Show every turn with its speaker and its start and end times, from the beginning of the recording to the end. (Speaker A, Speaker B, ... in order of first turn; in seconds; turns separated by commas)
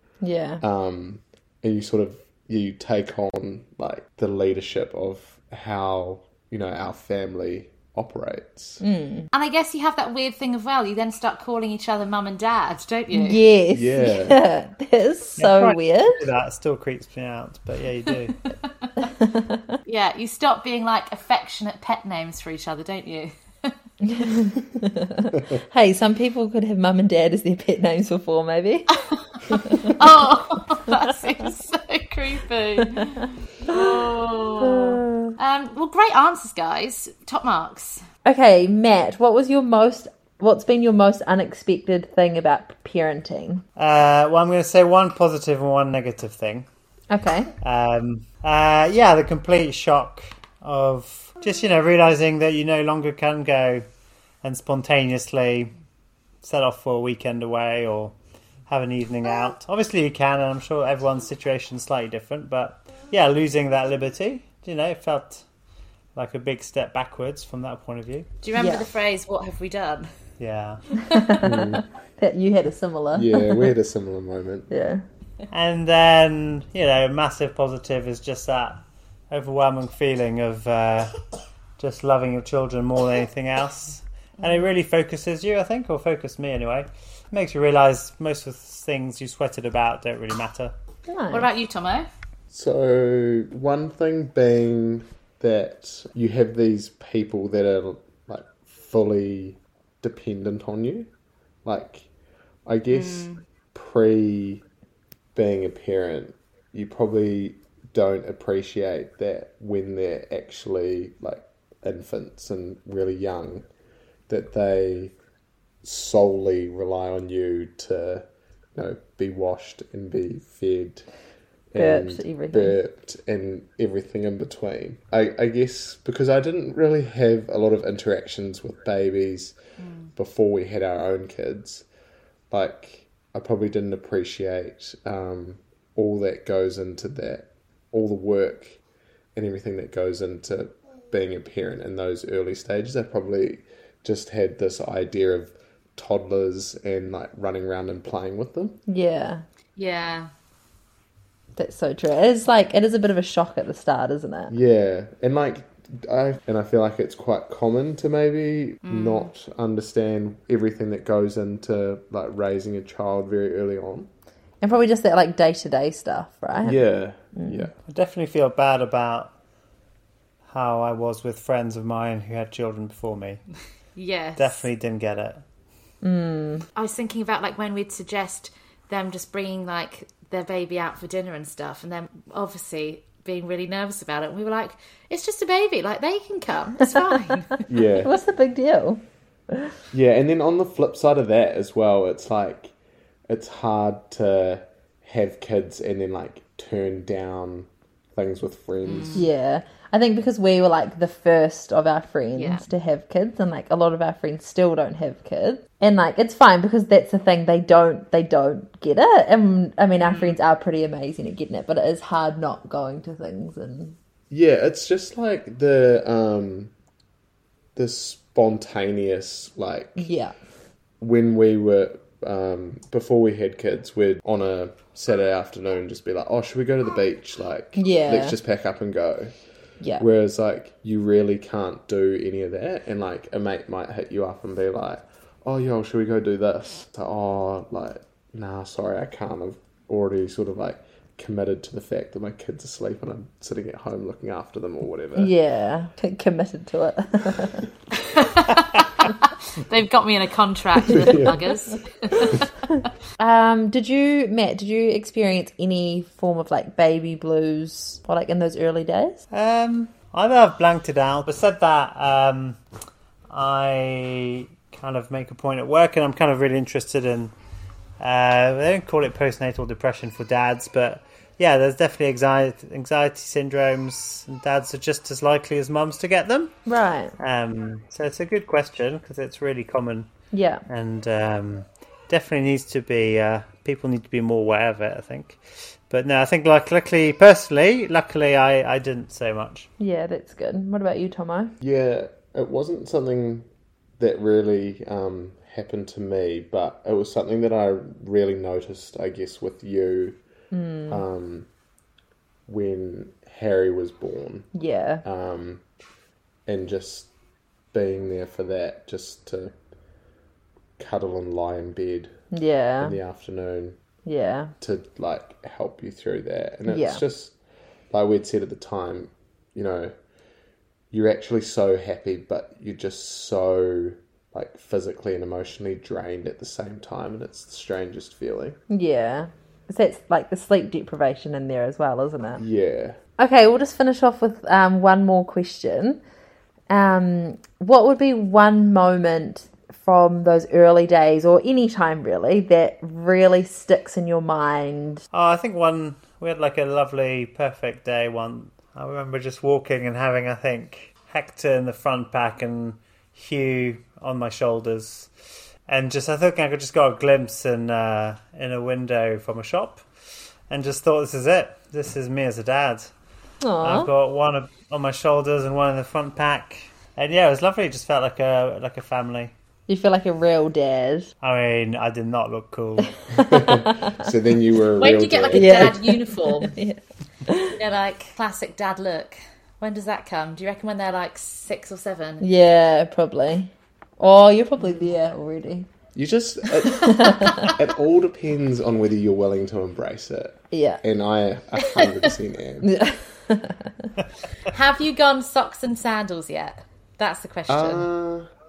Speaker A: 0.2-0.6, Speaker B: 0.6-8.8, Speaker A: 8.8-9.3, Speaker C: 9.3-13.4, Speaker A: 13.1-16.2, Speaker B: 13.7-14.4, Speaker D: 15.4-18.4, Speaker A: 19.0-19.7, Speaker C: 19.9-23.7, Speaker A: 24.0-28.9, Speaker A: 29.5-30.0, Speaker C: 29.8-38.0, Speaker A: 32.8-33.9, Speaker A: 34.6-35.4, Speaker A: 38.2-43.6, Speaker D: 43.8-46.7, Speaker A: 47.1-47.5, Speaker D: 47.6-53.9, Speaker D: 54.4-55.7, Speaker D: 56.4-58.1, Speaker D: 58.7-65.4, Speaker D: 66.2-68.3, Speaker C: 68.4-70.1, Speaker A: 68.5-68.8, Speaker D: 70.4-70.8, Speaker A: 71.0-71.6, Speaker B: 71.4-71.8, Speaker A: 72.2-73.7, Speaker B: 73.1-74.7, Speaker A: 74.7-75.0, Speaker D: 75.5-81.2, Speaker D: 81.8-90.7, Speaker A: 91.1-91.5, Speaker C: 91.3-92.1, Speaker B: 92.5-101.1, Speaker B: 101.6-102.1, Speaker B: 102.7-104.6, Speaker C: 102.9-103.4, Speaker B: 105.3-113.7, Speaker B: 114.3-115.1, Speaker B: 115.8-118.2, Speaker B: 118.8-121.0, Speaker B: 121.7-129.6, Speaker A: 121.8-122.8, Speaker C: 129.8-130.1, Speaker B: 130.2-131.8, Speaker B: 132.5-138.8, Speaker B: 139.3-148.8, Speaker A: 148.9-149.4, Speaker C: 149.8-150.3, Speaker A: 151.6-154.5, Speaker B: 154.5-164.1, Speaker C: 158.8-159.3, Speaker A: 164.6-166.8, Speaker B: 166.6-167.7, Speaker A: 167.3-167.7, Speaker D: 167.9-169.3, Speaker D: 170.5-173.4, Speaker C: 173.9-174.7, Speaker D: 174.4-175.4, Speaker A: 176.0-176.6, Speaker C: 176.7-187.6, Speaker B: 187.7-188.1, Speaker A: 188.0-189.0, Speaker B: 189.9-192.7, Speaker B: 193.3-199.3, Speaker C: 198.8-199.2, Speaker A: 199.1-213.9, Speaker C: 202.3-202.6, Speaker C: 210.0-210.4, Speaker B: 214.3-216.7, Speaker B: 217.8-220.1, Speaker A: 220.0-220.3, Speaker B: 221.0-229.3, Speaker A: 227.8-228.3, Speaker B: 230.0-245.3, Speaker A: 245.2-247.7, Speaker C: 248.0-252.5, Speaker B: 250.9-251.4, Speaker A: 253.2-259.2, Speaker D: 259.3-262.6, Speaker D: 263.3-267.3, Speaker D: 268.0-276.5, Speaker A: 276.7-277.1, Speaker D: 277.2-280.1, Speaker A: 280.3-280.6, Speaker D: 280.7-289.7, Speaker A: 289.8-291.5, Speaker B: 291.6-293.5, Speaker B: 294.0-300.2, Speaker A: 300.5-301.0, Speaker B: 300.9-301.5, Speaker B: 302.5-304.5, Speaker A: 304.5-305.0, Speaker B: 305.0-305.6, Speaker B: 306.5-307.1, Speaker B: 307.7-309.5, Speaker B: 310.8-312.1, Speaker A: 312.3-313.0, Speaker B: 312.8-313.8, Speaker A: 314.1-314.5, Speaker B: 314.6-317.4, Speaker A: 316.7-317.0, Speaker B: 317.9-319.9, Speaker B: 320.9-328.6, Speaker A: 328.7-332.4, Speaker B: 332.4-333.0, Speaker A: 333.2-336.0, Speaker A: 336.7-345.0, Speaker D: 345.1-355.1, Speaker D: 355.7-359.8, Speaker D: 360.5-362.9, Speaker A: 363.4-363.9, Speaker D: 363.6-369.3, Speaker A: 369.7-371.1, Speaker D: 371.2-372.9, Speaker A: 373.1-374.1, Speaker B: 373.1-375.8, Speaker C: 374.8-376.5, Speaker A: 375.3-377.5, Speaker C: 377.5-382.2, Speaker A: 382.2-385.7, Speaker B: 385.9-392.7, Speaker A: 386.7-387.5, Speaker A: 390.5-390.8, Speaker A: 392.6-393.9, Speaker C: 394.5-397.9, Speaker B: 397.5-398.3